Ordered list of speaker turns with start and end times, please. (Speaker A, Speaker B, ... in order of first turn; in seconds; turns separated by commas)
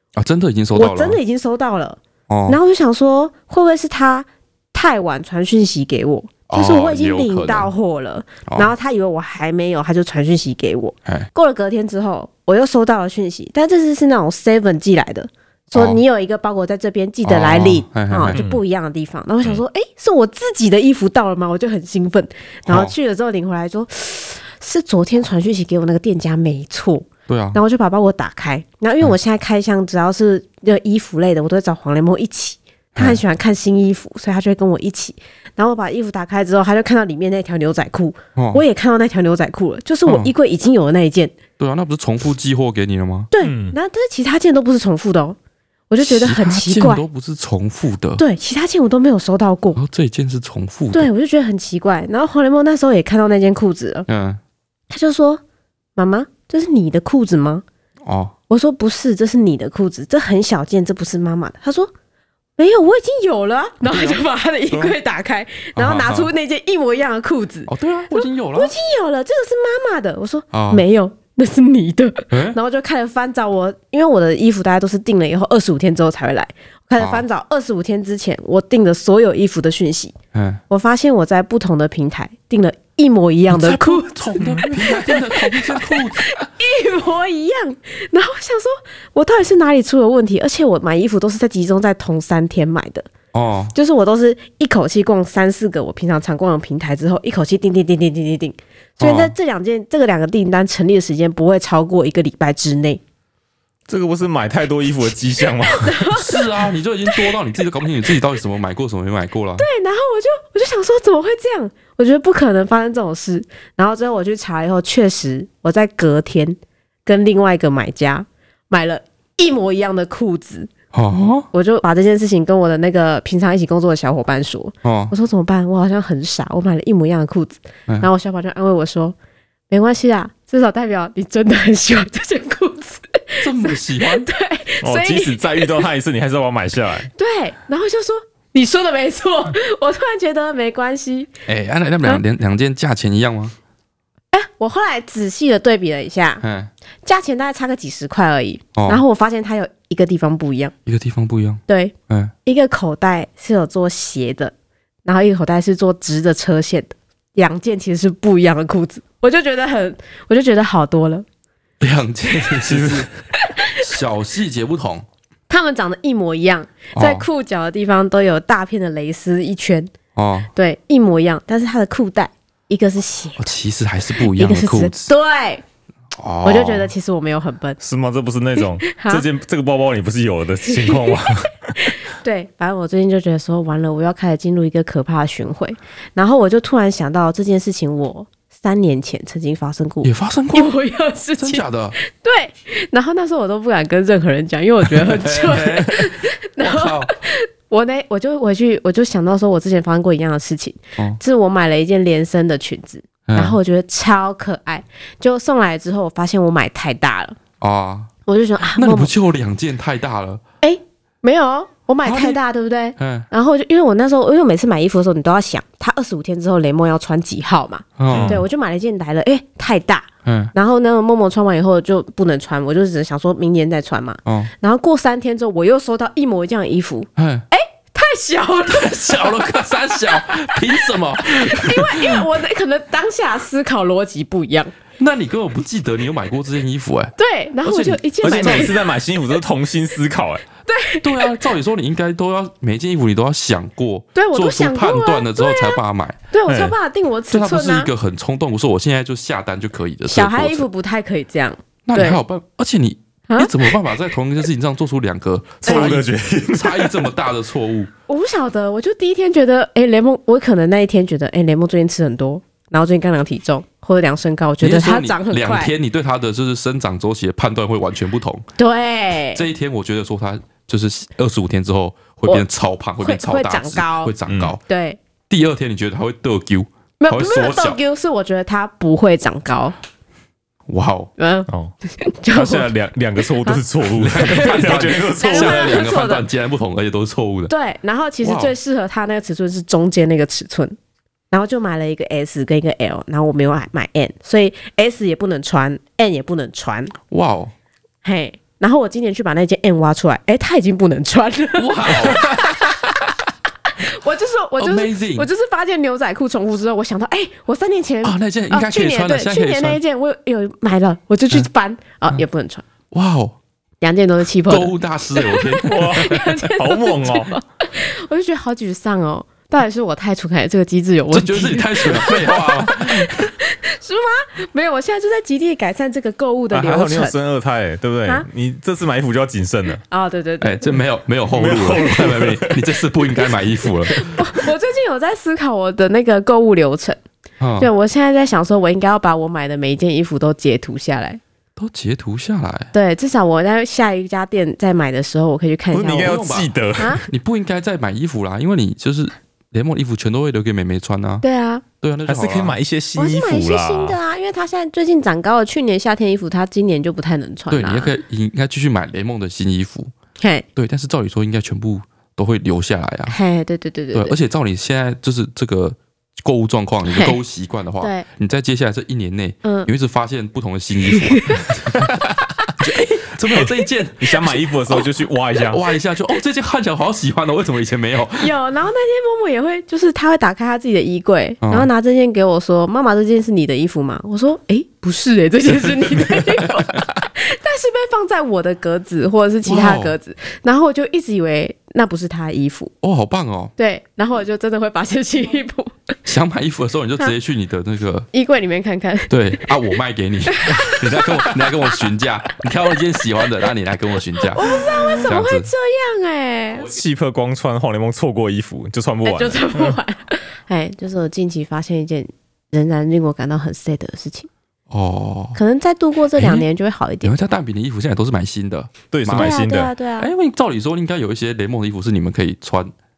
Speaker A: 0.1-1.2, Speaker B: 0.7-41.3, Speaker A: 2.3-2.6, Speaker A: 6.5-7.7, Speaker A: 8.4-8.7, Speaker A: 15.7-16.0, Speaker A: 17.2-18.4, Speaker C: 18.3-18.6, Speaker A: 22.7-22.9, Speaker A: 27.3-27.6, Speaker A: 33.0-33.2, Speaker A: 38.4-38.6, Speaker A: 40.0-40.3, Speaker A: 41.6-43.3, Speaker B: 43.3-45.4, Speaker C: 43.4-43.8, Speaker B: 45.9-47.0, Speaker A: 46.0-48.2, Speaker B: 48.2-49.8, Speaker A: 49.8-51.1, Speaker B: 50.9-54.1, Speaker A: 54.1-54.4, Speaker B: 54.9-55.4, Speaker B: 56.0-57.6, Speaker A: 58.0-58.3, Speaker B: 58.5-61.9, Speaker B: 62.6-80.1, Speaker A: 63.8-64.9, Speaker A: 65.8-66.3, Speaker A: 67.7-68.7, Speaker A: 70.5-70.8, Speaker A: 72.3-72.6, Speaker A: 77.0-77.2, Speaker A: 80.3-80.6, Speaker B: 80.7-93.1, Speaker A: 83.5-86.4, Speaker A: 93.3-93.7, Speaker B: 93.7-103.0, Speaker A: 99.0-99.3, Speaker C: 103.9-106.0, Speaker B: 105.7-106.5, Speaker A: 106.1-109.7, Speaker B: 109.6-120.7, Speaker A: 120.9-121.5, Speaker B: 121.5-129.2, Speaker A: 124.8-125.1, Speaker B: 129.7-135.7, Speaker A: 133.4-134.3, Speaker C: 134.8-137.1, Speaker B: 137.2-141.3, Speaker A: 141.5-143.5, Speaker B: 144.3-146.4, Speaker A: 146.4-146.7, Speaker B: 147.0-150.7, Speaker A: 148.7-149.0, Speaker A: 150.8-152.3, Speaker B: 151.7-151.9, Speaker B: 152.4-154.5, Speaker B: 155.0-161.2, Speaker A: 161.8-163.1, Speaker C: 162.5-163.1, Speaker B: 163.4-163.8, Speaker A: 163.7-165.1, Speaker B: 165.5-169.9, Speaker A: 166.9-167.3, Speaker A: 170.1-170.5, Speaker B: 170.5-173.5, Speaker A: 173.4-175.1, Speaker B: 174.2-175.6, Speaker A: 176.2-176.9, Speaker B: 176.4-177.8, Speaker C: 177.8-181.7, Speaker B: 178.6-179.2, Speaker B: 180.7-181.2, Speaker B: 181.8-207.4, Speaker A: 190.0-190.7, Speaker A: 191.4-191.9, Speaker A: 194.9-197.1, Speaker A: 203.2-203.6, Speaker A: 207.6-208.1, Speaker B: 208.2-209.1, Speaker A: 208.7-210.4, Speaker B: 210.6-234.7, Speaker A: 212.0-212.4, Speaker A: 213.0-213.3, Speaker A: 218.0-218.4, Speaker C: 218.1-218.4, Speaker A: 220.2-220.5, Speaker A: 224.2-224.5, Speaker A: 227.2-227.5, Speaker A: 228.7-232.3, Speaker A: 235.0-238.7, Speaker B: 237.2-238.9, Speaker C: 238.2-240.4, Speaker B: 240.7-241.4, Speaker A: 241.0-246.2, Speaker B: 244.1-245.8, Speaker B: 246.3-247.9, Speaker C: 246.5-246.7, Speaker A: 247.3-250.7, Speaker B: 250.1-252.2, Speaker A: 251.8-257.9, Speaker B: 253.3-253.7, Speaker C: 255.6-257.1, Speaker B: 258.1-265.7, Speaker A: 264.6-268.4, Speaker B: 268.6-269.4, Speaker A: 269.3-274.6, Speaker B: 273.0-274.1, Speaker C: 274.3-274.5, Speaker B: 274.6-275.0, Speaker A: 275.3-277.8, Speaker B: 277.0-279.7, Speaker A: 280.7-281.1, Speaker B: 281.2-282.7, Speaker C: 282.3-285.8, Speaker A: 283.9-287.5, Speaker B: 284.2-286.3, Speaker B: 287.5-290.8, Speaker A: 288.2-288.5, Speaker B: 291.3-296.9, Speaker A: 297.1-297.5, Speaker B: 298.0-303.1, Speaker A: 301.5-302.5, Speaker B: 303.7-312.6, Speaker A: 304.6-305.3, Speaker A: 308.0-309.8, Speaker A: 312.9-313.4, Speaker B: 313.8-327.1, Speaker A: 314.5-316.3, Speaker C: 315.6-317.4, Speaker A: 321.1-323.3, Speaker C: 326.5-329.8, Speaker B: 329.9-330.8, Speaker A: 330.4-334.0, Speaker C: 331.3-332.7, Speaker B: 333.9-337.0, Speaker A: 337.4-337.7, Speaker B: 337.6-341.2, Speaker A: 341.6-342.7, Speaker B: 342.7-346.2, Speaker C: 345.7-347.1, Speaker A: 346.0-346.5, Speaker B: 346.8-347.0, Speaker A: 347.0-351.2, Speaker B: 351.2-351.6, Speaker A: 351.8-352.6, Speaker C: 352.1-354.0, Speaker B: 352.9-357.9, Speaker A: 357.5-359.9, Speaker B: 360.2-360.4, Speaker A: 360.6-363.2, Speaker B: 363.1-364.1, Speaker A: 363.9-372.1, Speaker B: 366.9-367.2, Speaker B: 369.4-369.7, Speaker B: 370.9-371.4, Speaker A: 372.6-374.9, Speaker C: 373.3-375.6, Speaker A: 375.4-378.3, Speaker B: 378.2-392.7, Speaker A: 381.4-381.7, Speaker A: 385.5-386.8, Speaker A: 389.4-389.9, Speaker A: 392.8-393.5, Speaker B: 393.6-395.9, Speaker A: 396.0-398.1, Speaker B: 398.1-399.5, Speaker A: 399.1-404.4, Speaker B: 400.3-401.8, Speaker B: 404.3-406.7, Speaker A: 405.0-405.5, Speaker C: 406.6-409.8, Speaker B: 409.0-414.3, Speaker A: 414.7-415.4, Speaker B: 415.3-417.1, Speaker A: 416.1-416.4, Speaker A: 417.0-419.4, Speaker C: 418.9-419.7, Speaker B: 419.1-420.1, Speaker A: 420.0-422.7